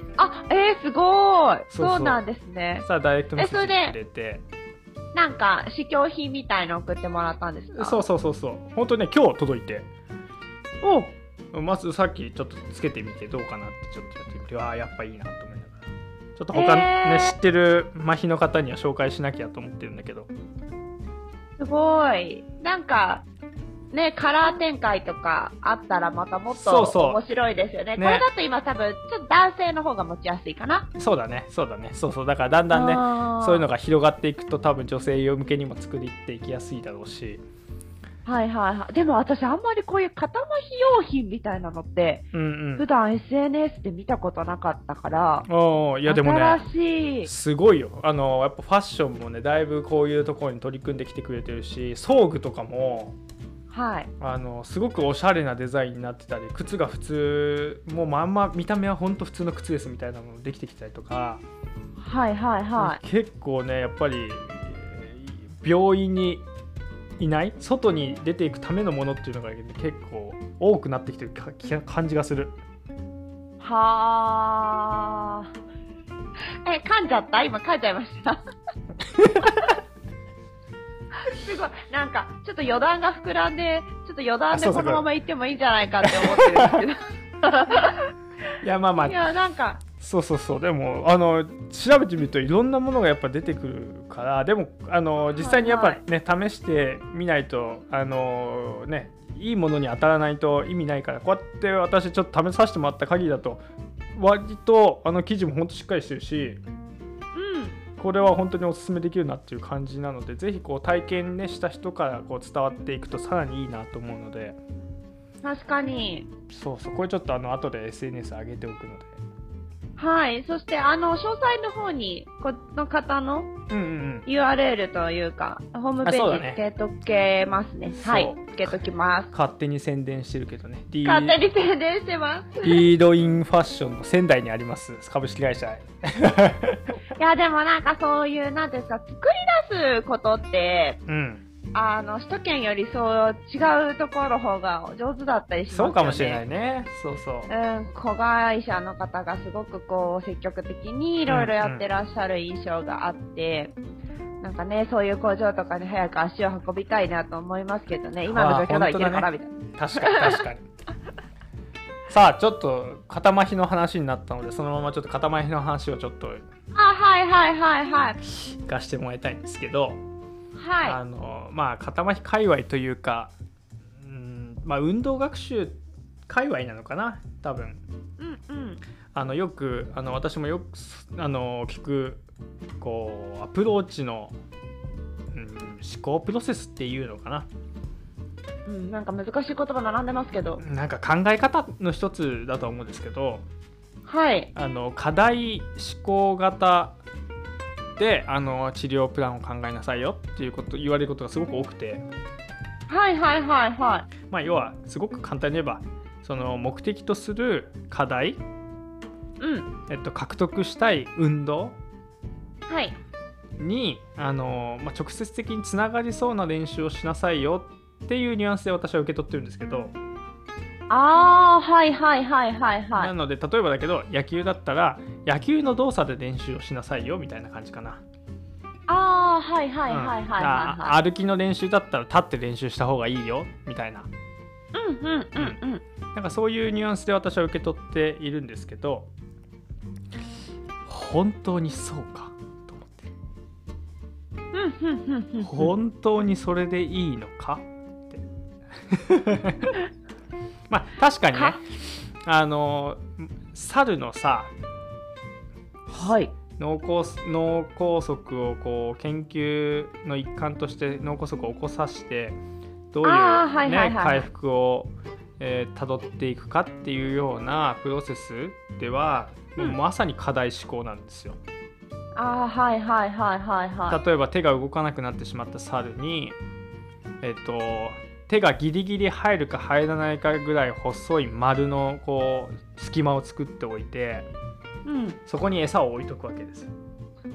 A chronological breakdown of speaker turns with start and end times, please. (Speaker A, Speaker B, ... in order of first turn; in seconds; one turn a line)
Speaker A: 0.2-4.0
Speaker B: 1.7-2.2
Speaker B: 2.8-4.5
Speaker A: 5.2-8.0
Speaker B: 7.7-9.9
Speaker A: 10.8-11.1
Speaker B: 11.5-20.3
Speaker A: 16.5-17.4
Speaker A: 21.6-23.3
Speaker A: 23.9-30.9
Speaker B: 26.5-27.2
Speaker B: 28.0-28.2
Speaker B: 31.0-37.4
Speaker A: 32.7-33.6
Speaker A: 38.2-45.5
Speaker B: 42.3-42.9
Speaker B: 45.5-46.6
Speaker A: 46.1-47.3
Speaker B: 47.2-53.2
Speaker A: 53.7-54.1
Speaker B: 54.2-61.4
Speaker A: 62.0-63.0
Speaker B: 62.8-66.5
Speaker B: 67.2-72.6
Speaker A: 73.6-75.5
Speaker A: 76.7-78.4
Speaker B: 79.2-79.5
Speaker A: 81.3-88.1
Speaker B: 84.5-85.0
Speaker B: 86.0-86.8
Speaker B: 88.6-89.2
Speaker A: 89.0-89.8
Speaker B: 90.0-103.6
Speaker A: 95.3-96.0
Speaker B: 104.2-106.6
Speaker A: 107.3-107.8
Speaker B: 108.0-114.6
Speaker A: 115.4-116.3
Speaker B: 116.5-119.2
Speaker A: 120.0-123.5
Speaker B: 123.7-124.3
Speaker A: 124.3-129.3
Speaker B: 126.0-126.6
Speaker B: 128.0-128.8
Speaker B: 129.3-131.4
Speaker A: 131.1-132.9
Speaker B: 132.6-137.0
Speaker A: 137.2-141.0
Speaker B: 141.1-141.4
Speaker A: 141.7-146.4
Speaker B: 145.7-147.5
Speaker A: 147.5-153.8
Speaker B: 151.3-151.8
Speaker A: 154.4-160.4
Speaker B: 158.3-160.7
Speaker B: 162.1-166.5
Speaker A: 166.7-168.2
Speaker B: 168.2-170.0
Speaker A: 170.6-171.0
Speaker B: 170.8-173.3
Speaker B: 174.0-177.8
Speaker A: 178.2-178.8
Speaker B: 179.1-182.2
Speaker B: 182.8-184.3
Speaker B: 185.3-187.5
Speaker A: 188.7-190.6
Speaker B: 190.6-193.4
Speaker A: 194.1-194.5
Speaker B: 194.6-197.0
Speaker B: 198.0-202.0
Speaker A: 202.9-204.1
Speaker B: 204.3-208.4
Speaker A: 209.4-209.7
Speaker B: 209.9-211.8
Speaker A: 212.7-213.0
Speaker B: 213.6-219.9
Speaker A: 220.9-223.1
Speaker B: 223.0-228.0
Speaker A: 228.9-230.9
Speaker B: 229.9-234.1
Speaker A: 234.7-235.8
Speaker B: 236.1-239.1
Speaker B: 240.9-243.1
Speaker A: 244.5-245.7
Speaker B: 245.4-248.2
Speaker B: 248.9-249.8
Speaker B: 250.7-254.5
Speaker A: 255.9-256.3
Speaker B: 256.6-262.4
Speaker B: 262.9-271.4
Speaker A: 263.0-264.3
Speaker A: 272.2-274.0
Speaker B: 273.9-276.4
Speaker B: 277.2-284.3
Speaker A: 284.9-285.2
Speaker B: 285.3-286.7